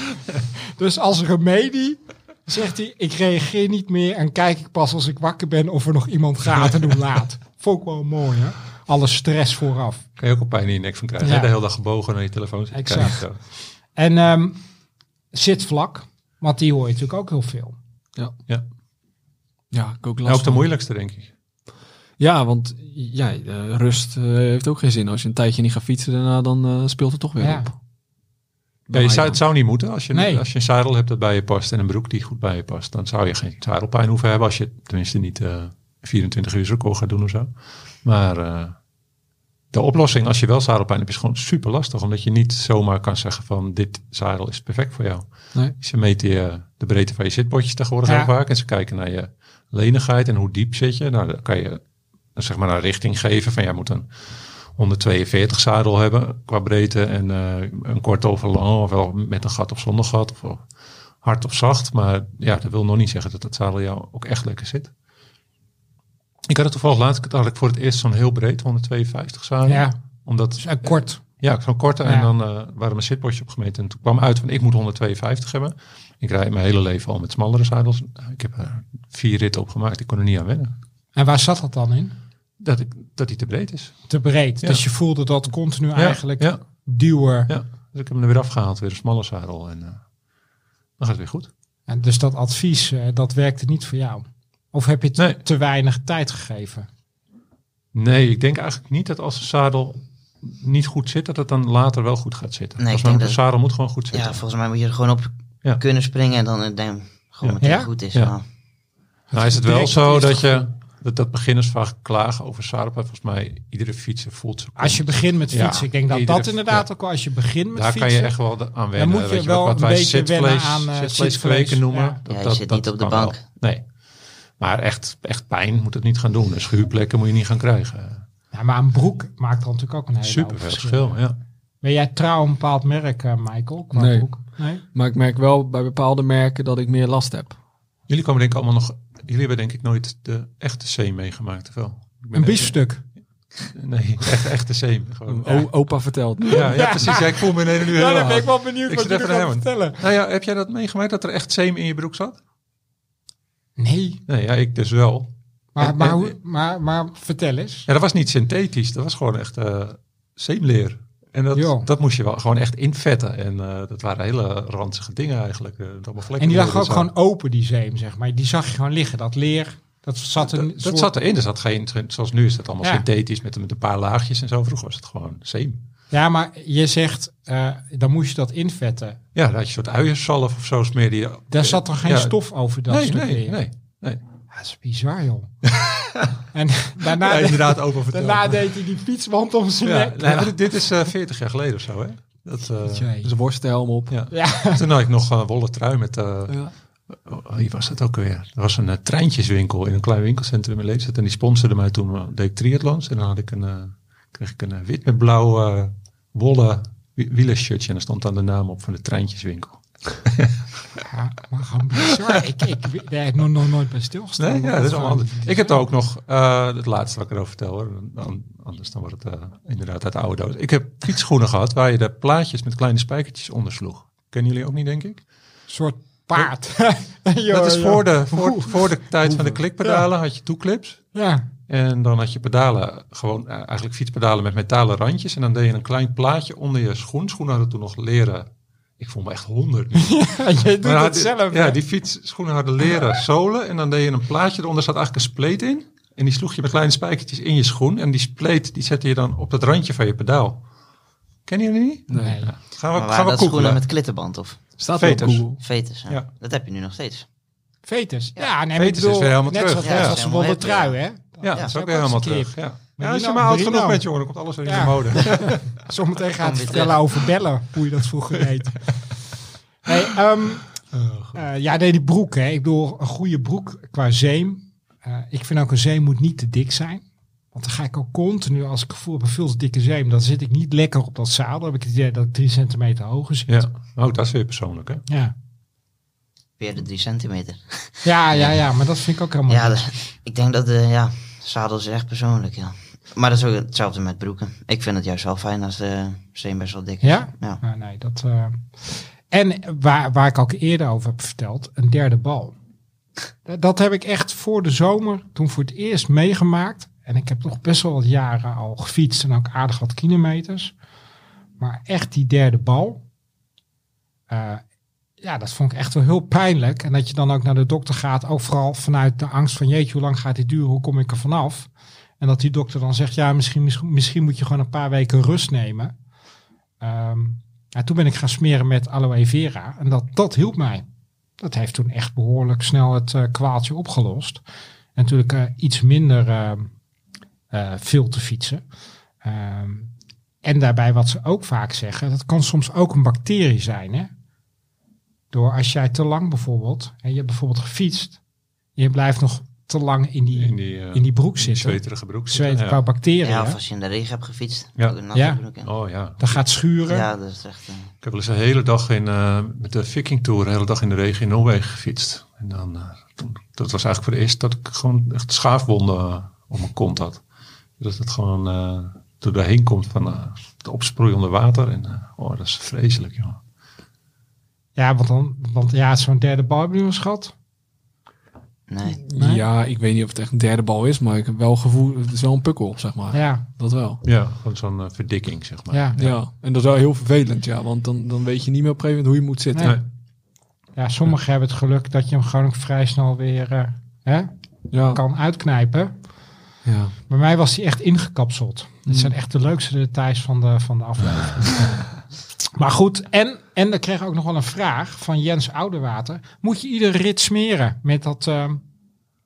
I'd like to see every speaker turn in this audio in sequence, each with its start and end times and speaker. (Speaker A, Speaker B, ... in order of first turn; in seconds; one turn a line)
Speaker A: 0.8-10.0
Speaker B: 10.2-13.4
Speaker A: 11.2-11.5
Speaker A: 12.7-13.3
Speaker A: 13.9-14.6
Speaker A: 15.3-17.8
Speaker C: 19.7-20.7
Speaker B: 20.2-21.3
Speaker C: 22.2-27.8
Speaker A: 27.4-27.7
Speaker C: 28.9-29.4
Speaker B: 28.9-37.5
Speaker A: 30.1-30.4
Speaker B: 38.0-38.8
Speaker B: 39.7-45.2
Speaker B: 45.8-51.8
Speaker B: 52.4-54.1
Speaker B: 54.8-60.6
Speaker B: 61.2-64.9
Speaker B: 66.5-80.7
Speaker A: 69.7-70.0
Speaker A: 70.6-71.2
Speaker A: 72.0-72.3
Speaker A: 81.2-82.2
Speaker B: 82.6-84.1
Speaker A: 84.1-87.5
Speaker B: 86.0-86.6
Speaker B: 87.5-90.0
Speaker B: 91.0-91.5
Speaker A: 91.9-96.9
Speaker B: 97.9-104.4
Speaker D: 102.8-103.4
Speaker D: 104.1-108.4
Speaker A: 107.6-107.9
Speaker A: 109.3-110.7
Speaker B: 109.3-116.9
Speaker A: 114.8-118.3
Speaker B: 117.8-123.8
Speaker A: 118.9-122.2
Speaker D: 122.3-123.4
Speaker B: 124.6-128.2
Speaker A: 128.5-131.2
Speaker B: 130.2-131.4
Speaker A: 131.8-134.8
Speaker C: 133.9-134.3
Speaker C: 134.9-137.6
Speaker B: 138.1-142.8
Speaker A: 142.3-143.0
Speaker B: 143.7-145.7
Speaker C: 145.3-147.0
Speaker B: 146.5-152.4
Speaker A: 146.5-150.0
Speaker A: 153.8-154.2
Speaker B: 154.3-156.3
Speaker A: 155.8-157.9
Speaker B: 157.9-167.1
Speaker A: 161.5-161.9
Speaker A: 166.4-171.1
Speaker B: 170.4-175.8
Speaker A: 176.1-179.2
Speaker B: 179.3-182.4
Speaker A: 181.5-183.6
Speaker B: 182.9-184.2
Speaker A: 184.5-185.5
Speaker B: 185.7-186.3
Speaker A: 186.5-190.5
Speaker B: 187.0-188.7
Speaker B: 189.8-193.1
Speaker A: 192.8-193.3
Speaker C: 193.2-194.2
Speaker B: 194.1-210.6
Speaker A: 194.3-194.8
Speaker A: 211.0-215.8
Speaker B: 214.4-225.2
Speaker A: 225.7-228.8
Speaker B: 227.5-231.0
Speaker A: 231.1-231.5
Speaker B: 231.7-238.5
Speaker B: 239.0-250.6
Speaker A: 240.0-241.8
Speaker B: 251.5-253.8
Speaker C: 252.1-252.4
Speaker A: 252.2-252.5
Speaker D: 252.9-254.6
Speaker C: 254.8-255.6
Speaker B: 254.9-255.5
Speaker D: 255.6-257.3
Speaker A: 257.9-264.0
Speaker B: 258.7-260.2
Speaker D: 259.8-261.0
Speaker B: 261.4-265.8
Speaker A: 264.6-268.9
Speaker D: 266.4-267.0
Speaker A: 269.9-270.7
Speaker B: 270.9-271.4
Speaker A: 271.4-283.6
Speaker B: 283.5-285.0
Speaker A: 285.1-285.3
Speaker D: 286.6-288.6
Speaker A: 288.0-289.9
Speaker D: 289.5-297.6
Speaker A: 297.0-302.6
Speaker A: 303.4-310.7
Speaker A: 311.6-313.0
Speaker A: 314.3-314.6
Speaker A: 315.2-325.9
Speaker A: 326.8-330.9
Speaker A: 331.4-334.4
Speaker A: 335.0-336.7
Speaker A: 337.5-338.6
Speaker A: 339.2-339.9
Speaker A: 340.4-344.1
Speaker A: 345.3-348.2
Speaker A: 348.8-353.6
Speaker B: 350.4-352.8
Speaker D: 353.2-355.7
Speaker A: 355.1-355.4
Speaker B: 355.6-356.4
Speaker A: 356.2-357.1
Speaker D: 356.9-357.9
Speaker B: 358.0-367.2
Speaker B: 367.8-373.4
Speaker A: 374.8-377.3
Speaker D: 378.7-379.0
Speaker C: 378.9-384.0
Speaker A: 379.2-379.4
Speaker A: 383.1-383.4
Speaker B: 384.0-386.2
Speaker A: 385.7-386.0
Speaker C: 386.0-389.8
Speaker A: 390.8-394.3
Speaker C: 394.7-395.0
Speaker A: 394.9-395.9
Speaker C: 396.6-396.9
Speaker A: 397.1-401.8
Speaker C: 398.9-399.1
Speaker A: 402.5-408.6